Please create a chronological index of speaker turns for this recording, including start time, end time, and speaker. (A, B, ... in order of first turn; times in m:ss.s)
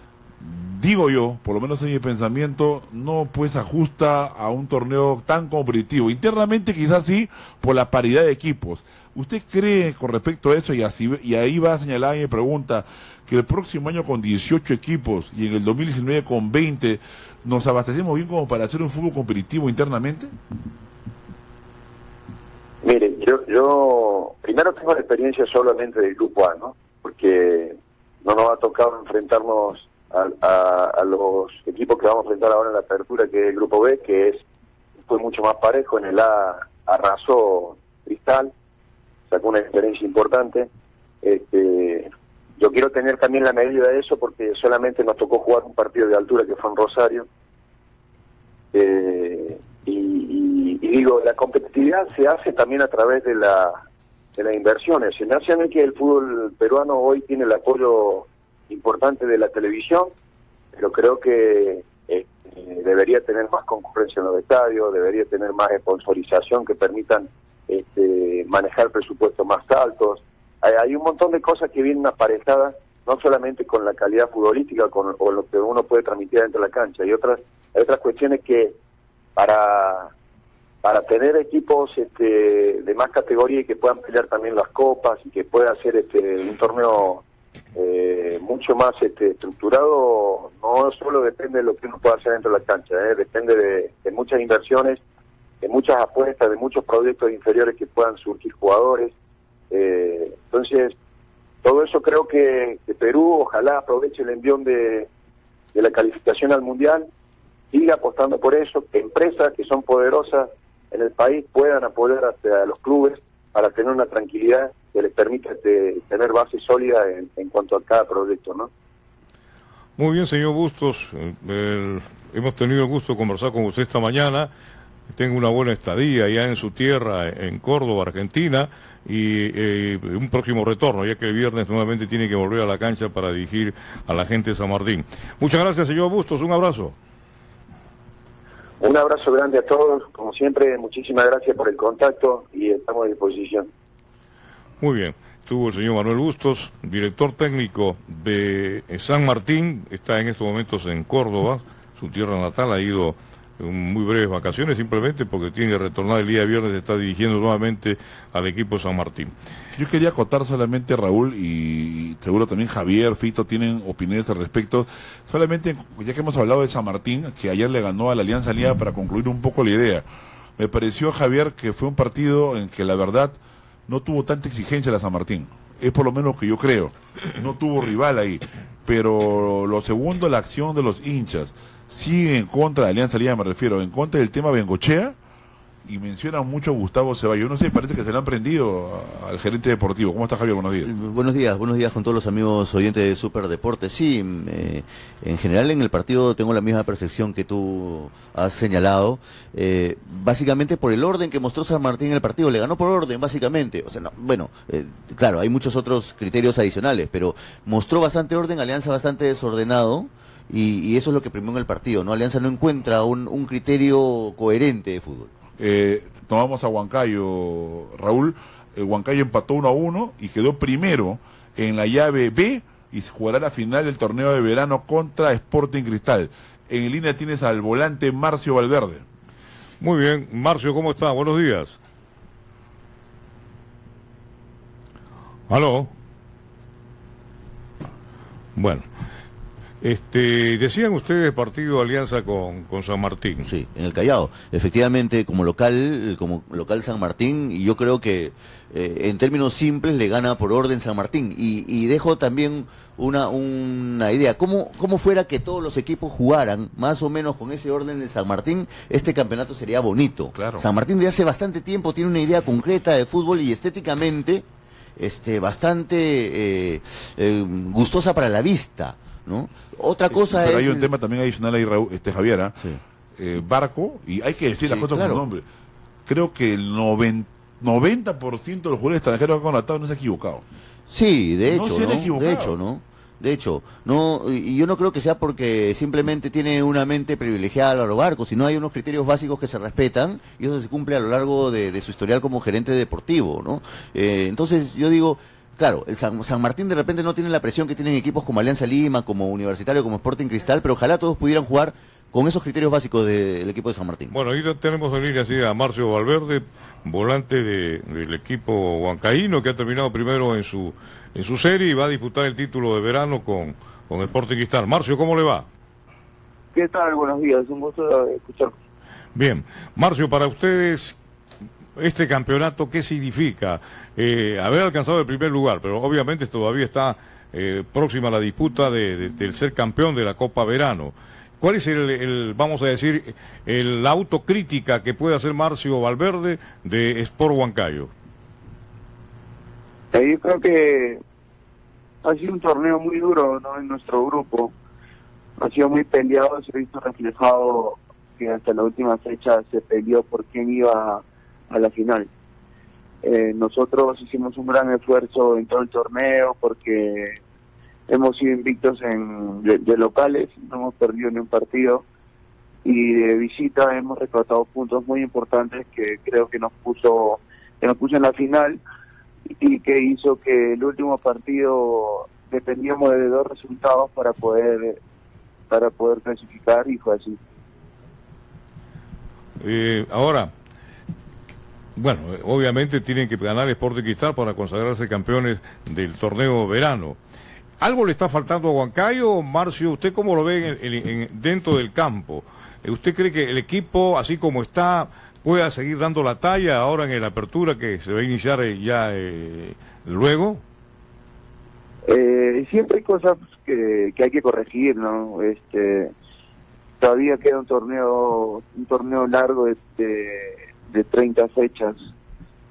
0:00.4-0:20.3 A
0:22.8-0:34.4 B
0:35.1-0:38.5 B
0:39.3-0:40.7 B
0:41.2-0:47.3 B
0:48.7-0:53.8 B
0:54.4-1:00.1 B
1:00.7-1:18.8 B
1:19.4-1:20.1 B
1:20.8-1:27.2 B
1:27.8-1:35.0 B
1:35.6-1:39.1 B
1:39.7-1:40.9 B
1:41.6-1:45.1 B
1:45.7-1:47.1 B
1:47.7-1:58.7 B
2:00.0-2:04.5 C
2:05.1-2:17.0 C
2:18.8-2:23.7 B
2:24.8-2:39.3 C
2:39.8-2:50.0 A
2:50.6-3:05.2 A
3:05.8-3:10.9 A
3:10.8-3:35.3 D
3:35.6-3:49.0 A
3:49.8-3:51.8 C
3:55.5-3:55.9 C
3:58.6-3:58.9 C
3:59.8-4:03.5 C
4:03.4-4:24.4 D
4:20.4-4:20.6 A
4:25.0-4:30.9 D
4:30.1-4:32.6 A
4:33.2-4:35.4 A
4:34.6-4:35.2 D
4:36.1-4:40.4 A
4:40.9-5:04.1 D
4:41.4-4:42.6 A
5:04.1-5:15.5 C
5:16.5-5:18.5 E
5:19.2-5:21.0 C
5:21.8-5:37.9 C
5:39.9-5:41.0 E
5:42.0-5:44.5 E
5:45.4-5:52.1 E
5:53.0-5:57.2 E
5:57.9-6:01.8 E
6:02.6-6:08.6 E
6:09.4-6:14.8 E
6:15.5-6:17.2 E
6:19.4-6:20.3 C
6:21.8-6:27.0 C
6:27.6-6:40.4 C
6:41.9-6:45.9 E
6:46.8-6:51.8 E